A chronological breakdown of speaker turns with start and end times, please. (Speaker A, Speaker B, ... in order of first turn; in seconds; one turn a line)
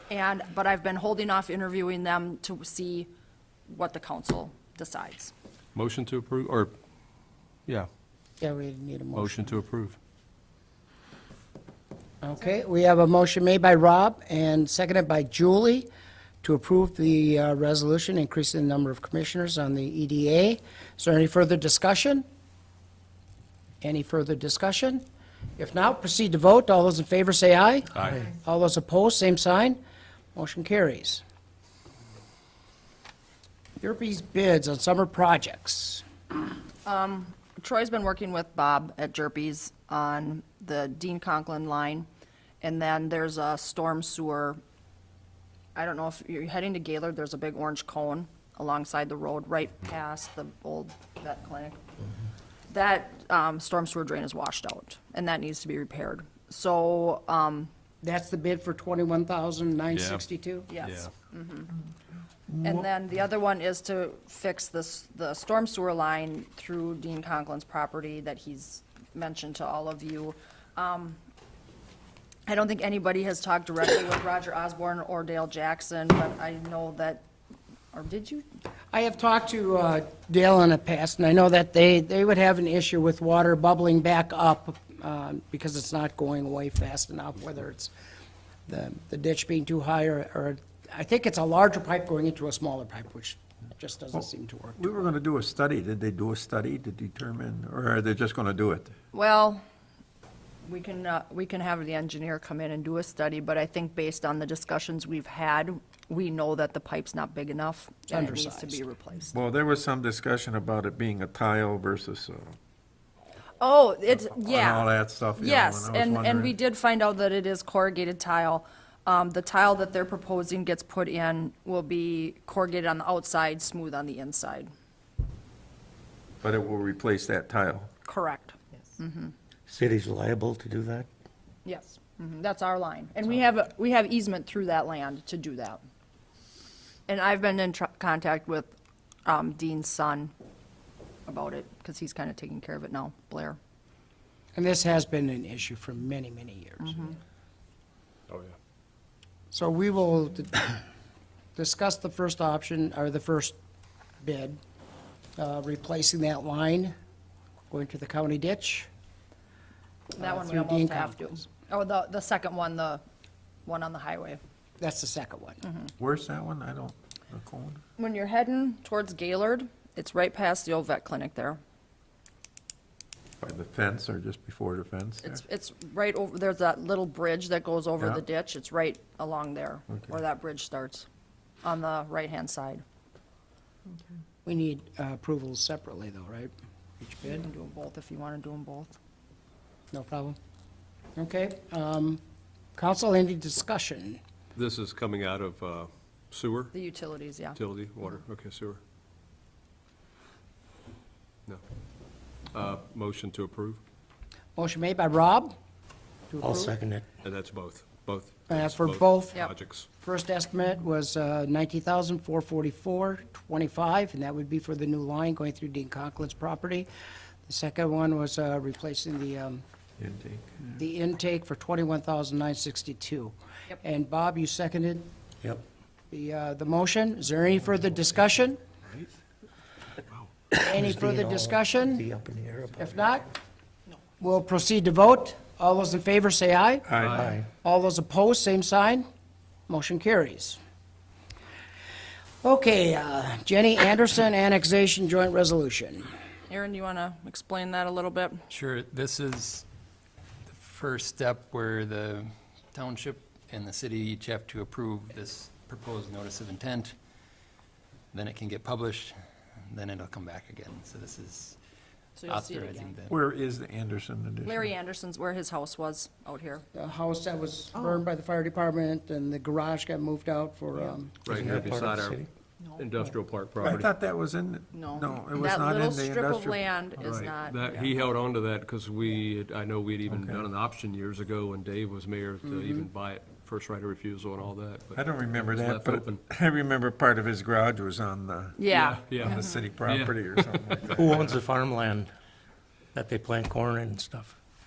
Speaker A: 0.1-3.1
Speaker A: 3.7-5.3
Speaker B: 5.7-6.7
Speaker C: 8.4-9.6
Speaker B: 9.1-10.0
Speaker C: 12.2-15.9
Speaker C: 16.4-22.2
Speaker C: 23.8-25.0
Speaker C: 25.6-29.8
Speaker B: 27.9-28.2
Speaker C: 30.3-31.2
Speaker C: 33.8-36.0
Speaker A: 36.8-42.1
Speaker A: 42.6-44.6
Speaker A: 45.7-51.8
Speaker A: 52.7-57.7
Speaker C: 58.0-60.7
Speaker B: 59.9-60.2
Speaker A: 60.7-61.7
Speaker B: 60.8-61.1
Speaker D: 62.5-62.8
Speaker A: 62.6-71.2
Speaker A: 72.5-77.2
Speaker A: 77.9-78.5
Speaker C: 78.9-87.9
Speaker C: 88.7-95.1
Speaker D: 94.1-98.9
Speaker A: 99.1-99.6
Speaker A: 100.6-109.3
Speaker C: 108.1-108.8
Speaker D: 109.3-112.5
Speaker A: 113.6-124.7
Speaker D: 114.2-116.5
Speaker D: 126.4-127.9
Speaker A: 128.1-129.3
Speaker E: 129.7-131.1
Speaker A: 131.6-135.8
Speaker A: 137.1-138.7
Speaker A: 139.2-140.3
Speaker A: 141.2-143.6
Speaker C: 144.5-147.2
Speaker A: 146.8-147.2
Speaker B: 148.3-148.5
Speaker C: 149.5-150.8
Speaker C: 151.6-153.6
Speaker C: 154.2-154.6
Speaker C: 155.4-156.9
Speaker C: 157.7-158.9
Speaker C: 160.1-161.4
Speaker A: 160.2-163.0
Speaker A: 163.7-164.4
Speaker C: 164.8-165.6
Speaker D: 166.0-167.8
Speaker A: 168.0-171.6
Speaker D: 173.4-175.4
Speaker A: 175.2-181.1
Speaker A: 181.6-182.8
Speaker C: 184.4-187.5
Speaker A: 187.2-188.9
Speaker C: 189.9-190.3
Speaker C: 191.2-192.2
Speaker C: 192.8-194.2
Speaker B: 194.5-196.7
Speaker A: 196.7-197.6
Speaker B: 197.5-198.8
Speaker B: 202.5-203.8
Speaker C: 204.6-205.5
Speaker C: 206.3-206.8
Speaker E: 206.4-207.1
Speaker B: 207.2-209.9
Speaker C: 208.5-209.5
Speaker C: 210.0-216.9
Speaker C: 217.4-219.6
Speaker D: 220.0-220.5
Speaker C: 220.7-225.1
Speaker C: 226.1-228.6
Speaker E: 230.6-232.9
Speaker C: 230.6-232.1
Speaker C: 232.8-233.3
Speaker C: 234.2-239.0
Speaker D: 236.9-237.3
Speaker E: 237.0-237.5
Speaker C: 239.7-240.6
Speaker C: 242.4-246.1
Speaker A: 246.5-248.4
Speaker F: 248.5-249.7
Speaker F: 250.4-256.9
Speaker F: 258.1-261.6
Speaker A: 262.1-263.0
Speaker F: 262.2-263.2
Speaker D: 263.1-264.7
Speaker A: 264.4-266.6
Speaker C: 266.7-271.3
Speaker B: 271.2-273.9
Speaker E: 271.3-272.3
Speaker D: 273.6-276.6
Speaker A: 274.7-278.0
Speaker B: 277.0-286.2
Speaker D: 280.1-280.4
Speaker D: 284.9-288.6
Speaker A: 288.6-289.6
Speaker B: 288.7-290.9
Speaker D: 289.2-291.4
Speaker E: 290.9-292.1
Speaker E: 292.9-294.3